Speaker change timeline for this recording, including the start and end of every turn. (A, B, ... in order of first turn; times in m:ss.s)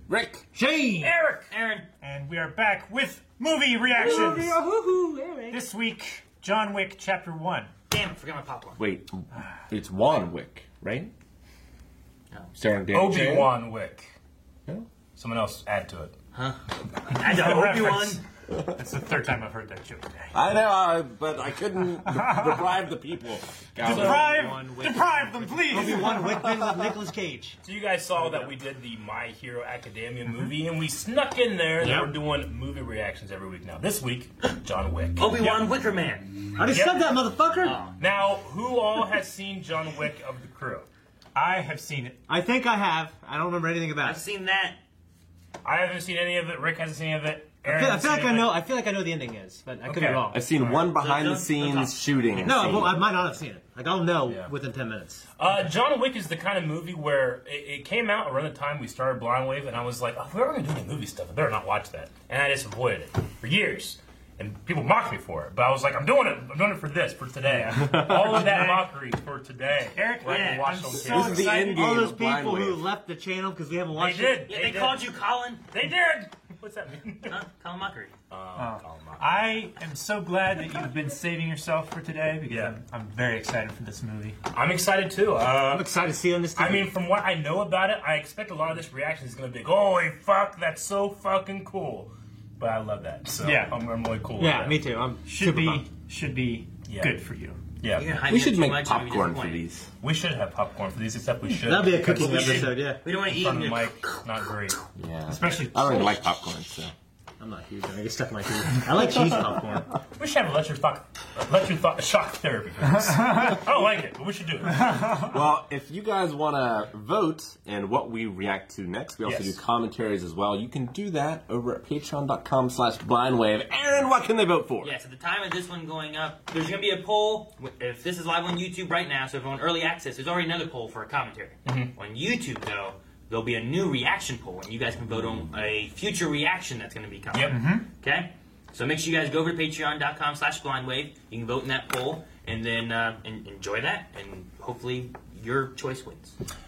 0:00.1-0:00.5 A
0:00.5-0:01.2 B
0:01.0-0:01.5 C
0:01.5-0:01.9 D
0:02.0-0:04.6 E
0:03.9-0:05.6 B
0:04.0-0:04.3 D
0:05.5-0:07.7 E
0:07.9-0:08.8 D
0:08.8-0:11.1 A
0:12.6-0:13.6 A
0:12.9-0:14.1 C
0:15.2-0:16.2 C
0:16.3-0:18.2 D
0:17.1-0:20.4 E
0:20.3-0:24.5 A
0:22.1-0:22.5 E
0:23.8-0:26.5 E
0:23.8-0:27.6 B
0:27.6-0:35.7 C
0:28.2-0:28.5 B
0:31.8-0:32.2 B
0:35.2-0:36.3 D
0:36.6-0:37.8 B
0:36.6-0:37.2 C
0:37.6-0:38.0 D
0:38.0-0:40.9 C
0:41.4-0:42.2 E
0:42.3-0:44.2 B
0:44.0-0:44.8 D
0:45.6-0:48.6 C
0:47.6-0:50.4 B
0:49.8-0:50.8 C
0:50.3-0:53.0 A
0:50.8-0:52.6 D
0:52.4-0:55.3 B
0:55.4-1:11.6 C
1:07.5-1:08.9 E
1:09.9-1:11.7 E
1:10.2-1:10.8 D
1:11.1-1:12.9 A
1:11.3-1:14.7 B
1:13.9-1:15.0 C
1:14.5-1:15.7 D
1:15.7-1:17.4 C
1:17.3-1:18.2 D
1:18.3-1:19.6 C
1:18.6-1:24.4 E
1:22.4-1:22.8 C
1:24.5-1:26.0 C
1:25.7-1:26.9 B
1:26.6-1:35.0 C
1:33.4-1:33.8 E
1:34.4-1:35.9 B
1:35.3-1:37.6 E
1:36.9-1:37.2 C
1:37.8-1:38.2 C
1:37.9-1:39.6 D
1:38.2-1:39.9 A
1:40.0-1:44.8 C
1:41.6-1:43.0 B
1:41.9-1:42.6 E
1:42.1-1:44.3 D
1:45.0-1:46.9 A
1:45.3-1:46.3 E
1:47.4-1:49.9 B
1:50.2-1:55.3 C
1:55.3-2:04.9 A
1:59.2-1:59.5 E
2:04.8-2:26.4 D
2:11.6-2:11.9 C
2:17.3-2:17.9 E